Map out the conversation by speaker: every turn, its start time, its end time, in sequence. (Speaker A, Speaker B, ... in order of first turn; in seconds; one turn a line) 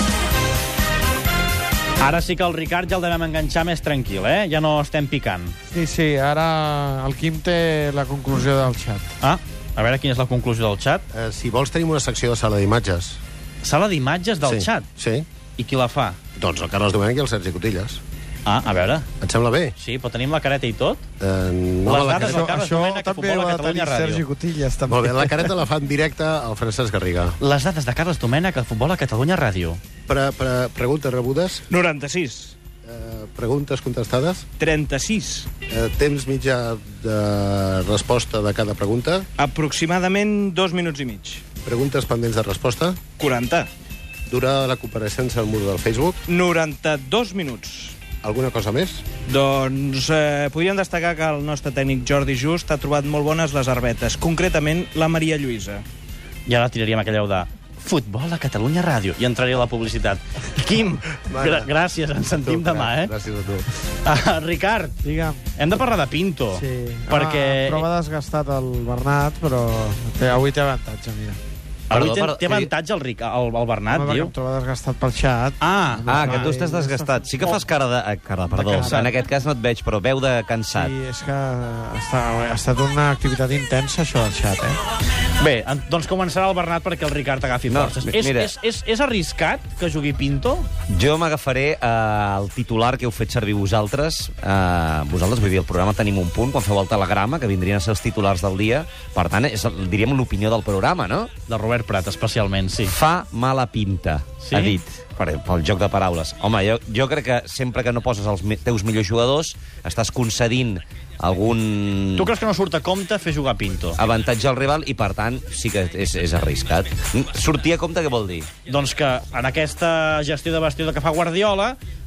Speaker A: 2.0-5.5
Speaker B: 5.7-9.1
Speaker A: 9.2-11.1
Speaker C: 11.1-13.2
Speaker A: 13.6-14.9
Speaker C: 14.4-15.3
Speaker A: 15.6-16.2
Speaker C: 16.4-18.0
Speaker A: 18.4-19.1
Speaker C: 19.2-19.7
Speaker A: 19.8-21.0
Speaker C: 21.2-22.5
Speaker A: 21.9-24.2
Speaker B: 22.1-25.6
Speaker C: 24.9-27.4
Speaker A: 27.4-29.8
Speaker C: 30.1-31.6
Speaker D: 31.7-32.6
Speaker C: 32.9-34.5
Speaker D: 34.6-35.5
Speaker C: 35.7-39.3
Speaker D: 39.4-41.4
Speaker C: 41.6-43.0
Speaker D: 43.2-43.7
Speaker C: 44.3-46.2
Speaker D: 46.3-48.0
Speaker C: 48.2-49.0
Speaker D: 49.2-55.9
Speaker A: 56.5-63.1
Speaker C: 61.2-61.7
Speaker C: 62.4-63.7
Speaker A: 63.9-65.0
Speaker B: 65.0-65.4
Speaker A: 65.6-67.9
Speaker B: 66.5-71.4
Speaker E: 71.9-72.7
Speaker A: 71.9-74.3
Speaker B: 73.9-77.7
Speaker A: 75.6-76.5
Speaker E: 76.1-80.9
Speaker A: 78.5-79.1
Speaker B: 78.7-79.1
Speaker B: 80.7-84.8
Speaker A: 85.4-90.7
Speaker E: 87.7-88.5
Speaker E: 90.9-101.3
Speaker A: 101.5-102.9
Speaker E: 102.9-112.3
Speaker A: 104.4-104.8
Speaker A: 112.2-114.0
Speaker E: 114.0-118.5
Speaker A: 118.7-121.8